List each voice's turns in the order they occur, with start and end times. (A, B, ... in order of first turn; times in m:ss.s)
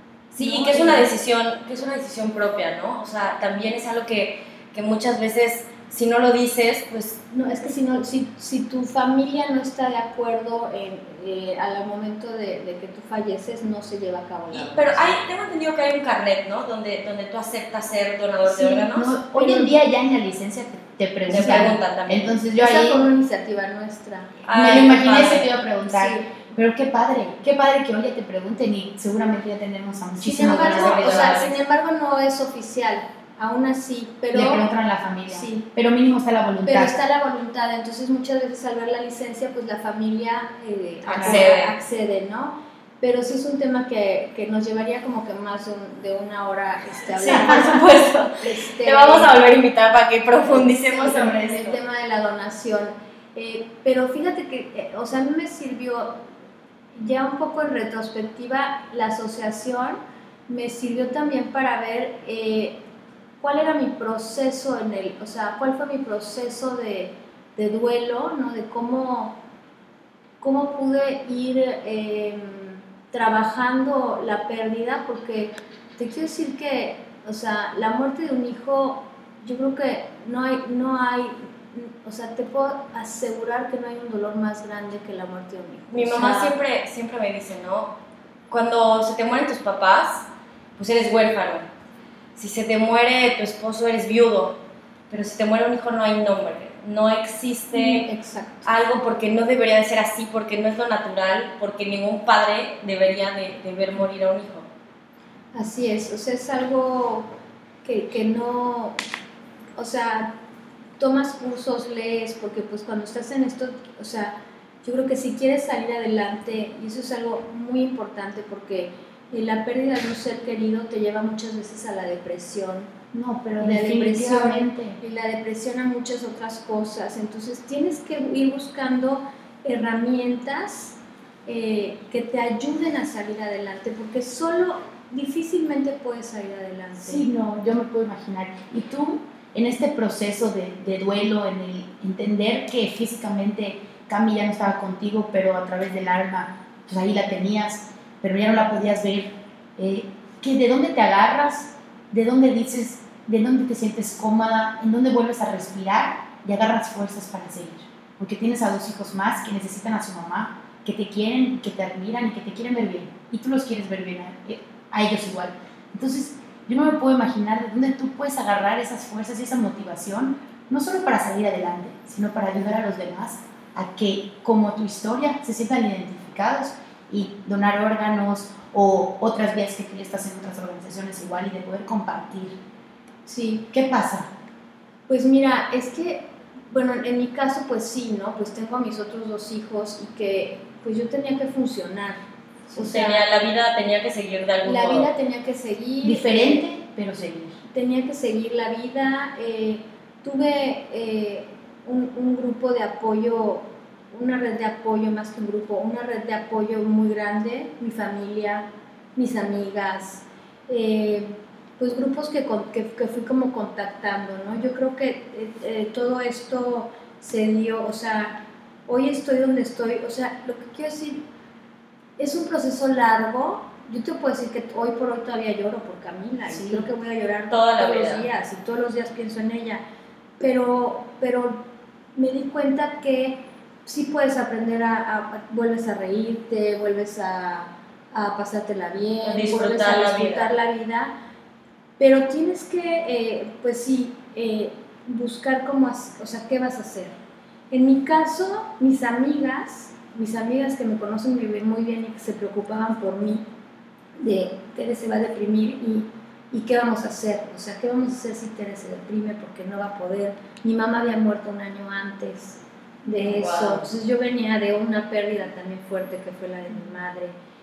0:00.3-0:07.2 A
0:00.4-0:01.1 B
0:07.3-0:15.2 B
0:14.5-0:19.2 A
0:18.6-0:23.0 C
0:19.3-0:19.7 B
0:21.3-0:22.4 A
0:21.3-0:21.7 B
0:22.6-0:25.2 B
0:24.5-0:25.5 A
0:24.5-0:31.4 C
0:25.9-0:26.3 B
0:30.2-0:34.7 B
0:30.4-0:31.6 A
0:34.3-0:36.9 C
0:35.3-0:35.7 B
0:36.6-0:49.3 B
0:41.0-0:41.8 A
0:41.1-0:41.5 C
0:47.1-0:51.8 A
0:47.3-0:47.8 C
0:50.7-0:51.7 C
0:51.0-0:56.2 B
0:57.0-1:02.8 B
1:03.4-1:09.4 B
1:10.4-1:26.6 B
1:25.9-1:27.9 A
1:28.5-1:31.6 A
1:32.4-1:34.6 A
1:35.1-1:38.1 A
1:37.7-1:38.7 B
1:38.6-1:44.7 A
1:45.5-1:47.3 B
1:47.8-1:49.0 B
1:49.8-1:50.3 B
1:51.0-2:02.9 B
2:03.1-2:05.0 C
2:03.6-2:17.2 B
2:17.0-3:02.6 C
3:03.3-3:03.7 B
3:03.7-3:04.3 C
3:05.1-3:13.3 B
3:12.8-3:15.1 A
3:14.6-3:16.7 B
3:16.0-3:17.6 C
3:17.6-3:41.2 B
3:42.2-3:49.8 B
3:46.5-3:46.9 C
3:47.5-3:48.3 A
3:50.4-3:51.6 B
3:52.2-4:01.1 B
3:59.2-4:00.5 A
4:02.0-4:07.2 B
4:07.7-4:13.4 B
4:14.2-4:27.3 B
4:23.1-4:23.9 A